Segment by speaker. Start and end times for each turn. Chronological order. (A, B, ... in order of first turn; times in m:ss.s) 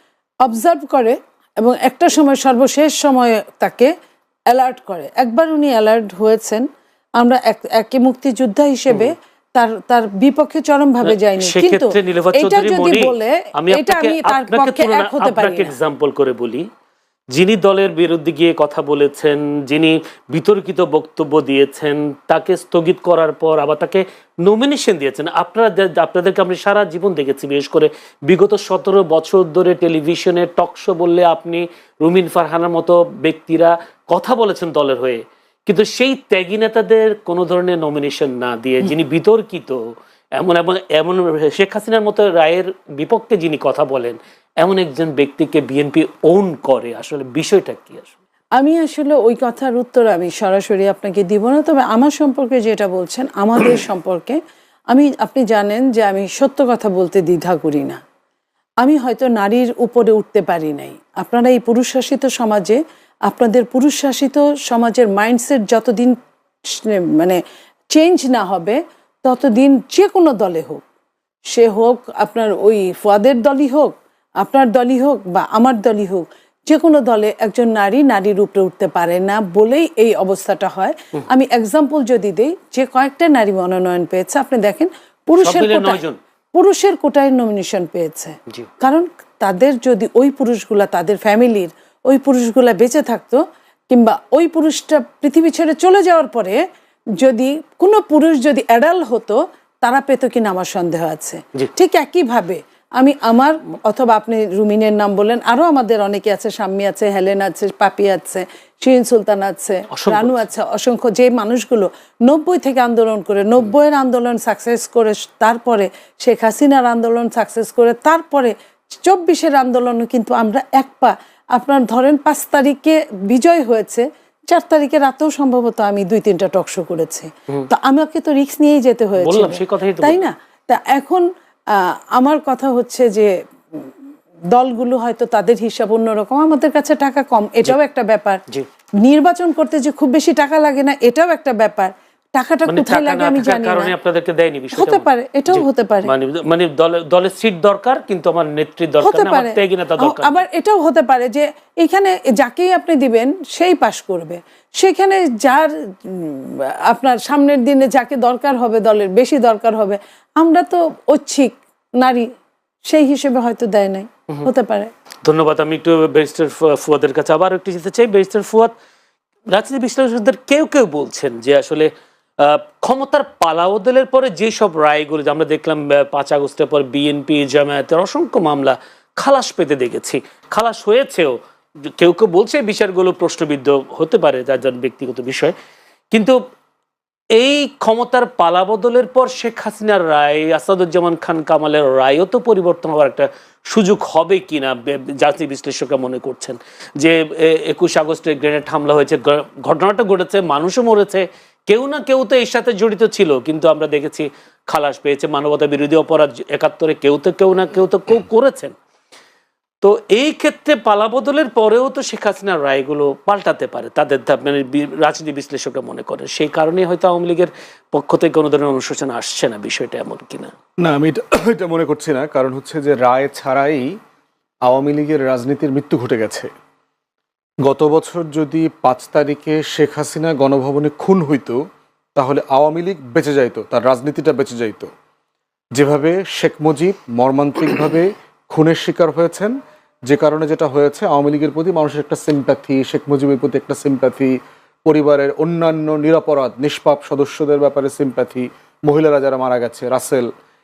0:00.4-0:03.9 A
0:04.5-0:06.7 A
0:07.2-0:15.7 A
0:11.0-0:16.7 B
0:17.3-0:39.8 B
0:40.4-0:48.1 B
0:48.6-0:54.4 A
0:54.9-0:58.0 A
0:58.8-1:06.2 A
1:06.7-1:10.8 A
1:11.5-1:26.0 A
1:25.4-1:26.2 B
1:26.5-1:36.6 A
1:37.2-2:13.8 A
1:49.9-1:50.4 B
2:09.2-2:10.3 B
2:14.5-2:18.4 A
2:19.0-2:23.9 A
2:22.7-2:30.4 B
2:24.7-2:26.1 A
2:29.0-2:42.3 A
2:42.9-2:44.9 A
2:45.2-2:48.7 B
2:49.5-3:01.4 B
3:02.0-3:05.5 B
3:06.1-3:06.4 B
3:07.4-3:28.7 B
3:29.8-3:40.5 B
3:40.8-3:44.0 C
3:44.6-3:46.5 C
3:47.6-3:51.6 C
3:52.1-3:54.9 C
3:55.7-3:59.6 C
4:00.1-4:10.3 C